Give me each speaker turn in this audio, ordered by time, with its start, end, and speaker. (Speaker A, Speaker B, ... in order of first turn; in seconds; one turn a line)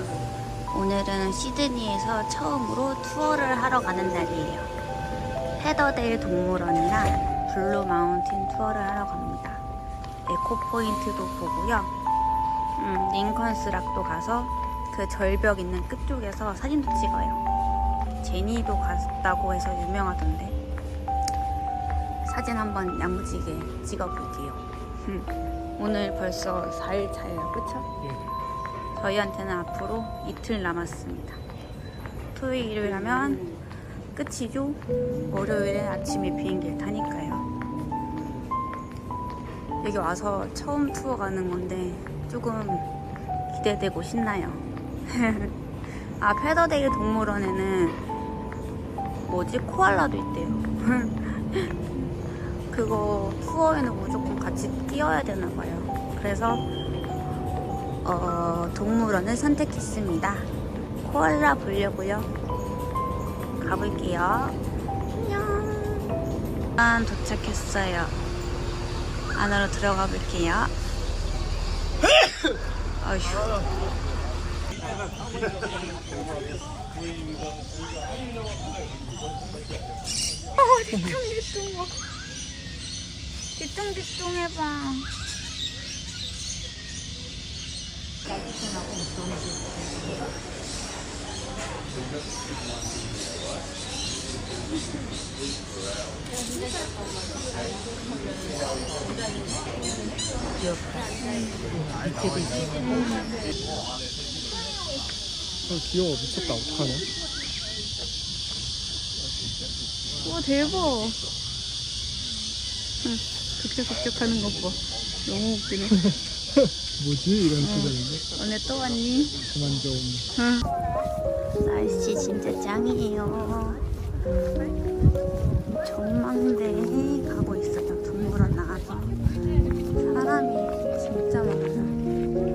Speaker A: 0.7-4.7
Speaker A: 5.6-9.6
Speaker A: 10.2-11.9
Speaker A: 12.8-17.4
Speaker A: 18.2-20.6
Speaker A: 22.2-27.9
Speaker A: 28.9-31.4
Speaker A: 32.3-33.6
Speaker A: 34.1-37.4
Speaker A: 39.8-42.9
Speaker A: 43.5-48.0
Speaker A: 49.2-51.9
Speaker A: 52.7-56.6
Speaker A: 58.0-60.5
Speaker A: 61.0-62.3
Speaker A: 63.6-64.6
Speaker A: 65.1-66.2
Speaker A: 66.8-68.2
Speaker A: 69.3-70.7
Speaker A: 73.0-73.7
Speaker A: 80.5-81.9
Speaker A: 83.5-85.1
Speaker A: 101.2-101.6
Speaker A: 102.7-103.5
Speaker B: 105.7-107.0
Speaker A: 110.2-111.2
Speaker A: 113.0-116.0
Speaker B: 117.0-117.5
Speaker A: 117.5-119.4
Speaker B: 119.6-120.2
Speaker A: 120.3-120.7
Speaker A: 121.6-123.8
Speaker A: 125.8-129.2
Speaker A: 129.9-132.0